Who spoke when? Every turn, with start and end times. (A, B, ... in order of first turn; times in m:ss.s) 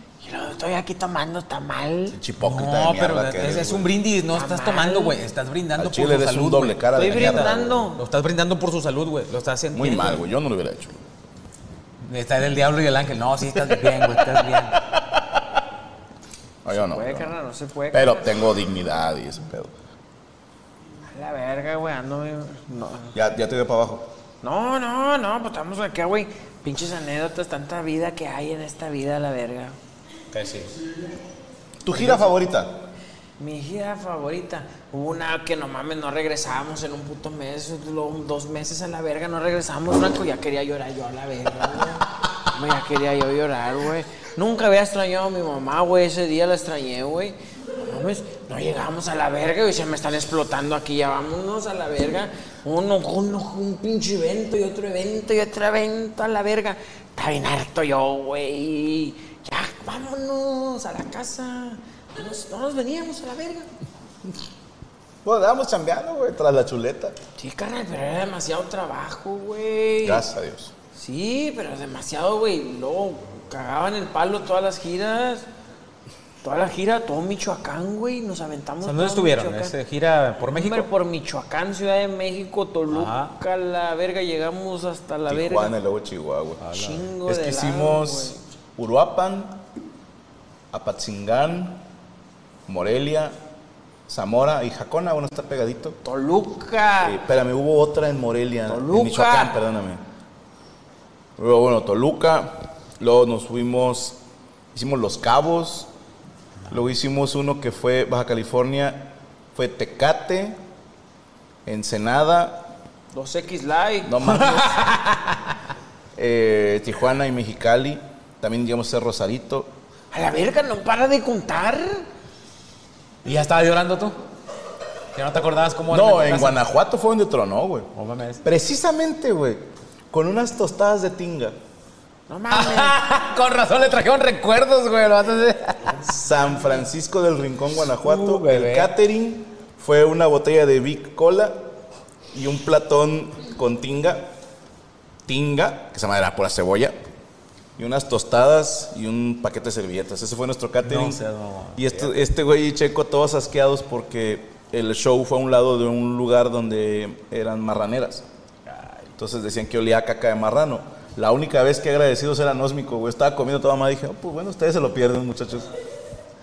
0:00.2-0:02.2 A
0:02.1-0:03.9 B
0:02.4-0:10.2 C
0:04.3-0:05.2 A
0:05.8-0:07.9 B
0:06.9-0:08.0 A
0:09.7-0:10.9 B
0:12.0-0:14.8 C
0:16.6-0:17.3 B
0:16.7-0:18.3 A
0:17.9-0:19.7 B
0:21.1-0:23.1 A
0:23.1-0:24.1 B
0:24.4-0:29.8 A
0:30.3-0:30.7 C
0:31.8-0:32.8 B
0:33.4-1:03.7 A
1:05.2-1:07.2 B
1:07.4-1:10.2 A
1:10.0-1:10.7 B
1:10.9-1:15.4 A
1:16.4-1:19.7 A
1:18.8-1:20.9 C
1:20.5-1:25.7 A
1:22.9-1:23.3 C
1:25.3-1:26.6 B
1:26.6-1:27.0 C
1:26.7-1:28.4 A
1:27.2-1:29.6 B
1:30.7-1:31.8 B
1:32.7-1:33.4 B
1:34.1-1:36.0 B
1:36.0-1:37.2 A
1:37.0-1:40.0 B
1:38.7-1:39.5 A
1:41.4-1:44.2 B
1:44.7-1:45.9 B
1:46.7-1:50.6 B
1:51.6-1:52.7 B
1:53.1-1:54.8 A
1:54.0-1:54.7 B
1:54.8-1:55.2 C
1:56.2-1:59.7 B
2:00.1-2:02.0 A
2:03.2-2:04.2 C
2:05.1-2:06.6 C
2:05.9-2:07.9 B
2:07.9-2:08.4 C
2:08.4-2:11.6 B
2:12.3-2:13.0 A
2:12.5-2:16.1 C
2:16.0-2:21.6 B
2:18.0-2:18.9 C
2:22.3-2:24.3 B
2:25.2-2:27.0 B
2:27.8-2:31.2 B
2:30.8-2:32.1 C
2:31.8-2:38.2 B
2:38.7-2:39.0 C
2:39.2-2:45.7 B